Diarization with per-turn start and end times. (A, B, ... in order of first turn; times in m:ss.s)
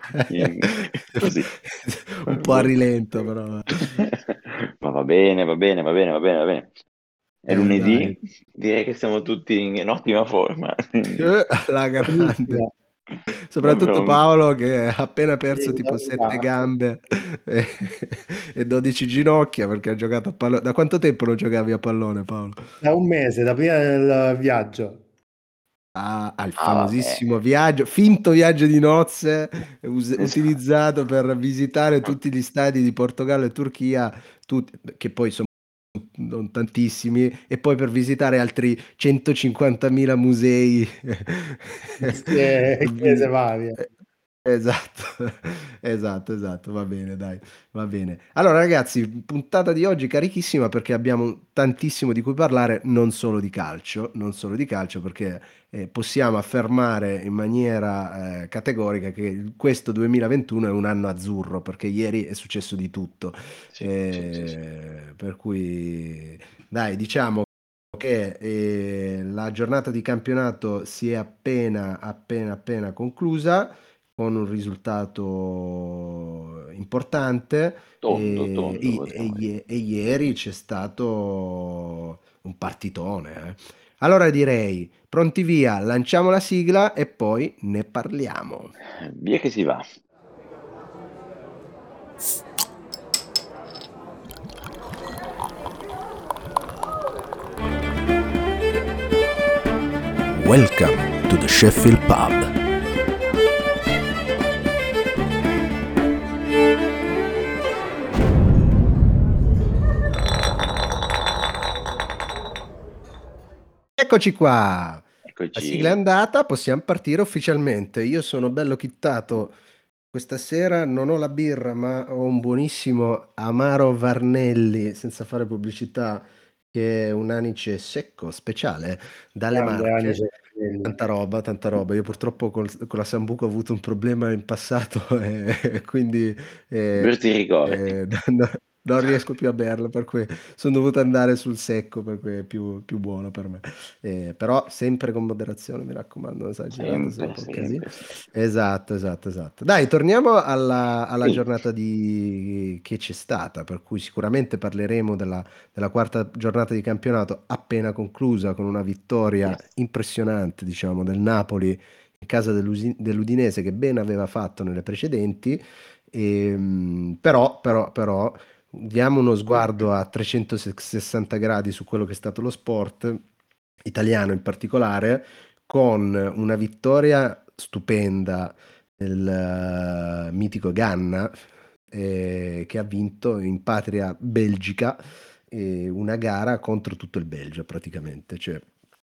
0:00.1-0:04.0 A
0:00.3-0:01.5 B
0:02.3-0:02.7 B
0:04.0-0:06.7 B
0:07.4-0:11.3 B
0:07.5-0:08.2 A
0:11.1-0:12.6 A
0:12.1-0:12.7 C
0:13.5-0:22.7 A
0:13.6-0:14.2 B
0:15.5-0:16.7 C
0:22.8-0:25.0 C
0:26.0-0:43.8 A
0:26.6-0:27.2 B
0:30.2-0:30.6 B
0:42.0-0:43.8 C
0:44.4-1:28.7 A
1:03.7-1:04.5 B
1:18.0-1:19.5 B
1:28.9-1:29.8 B
1:40.3-1:42.6 A
1:54.0-1:59.5 A
1:55.2-1:56.0 B
2:00.1-2:10.2 A
2:09.5-2:11.0 C
2:10.8-2:17.1 A
2:17.0-2:17.9 B
2:17.6-2:53.2 A
2:26.8-2:28.1 B
2:53.8-3:01.3 A
3:01.9-3:05.0 A
3:05.5-3:08.7 A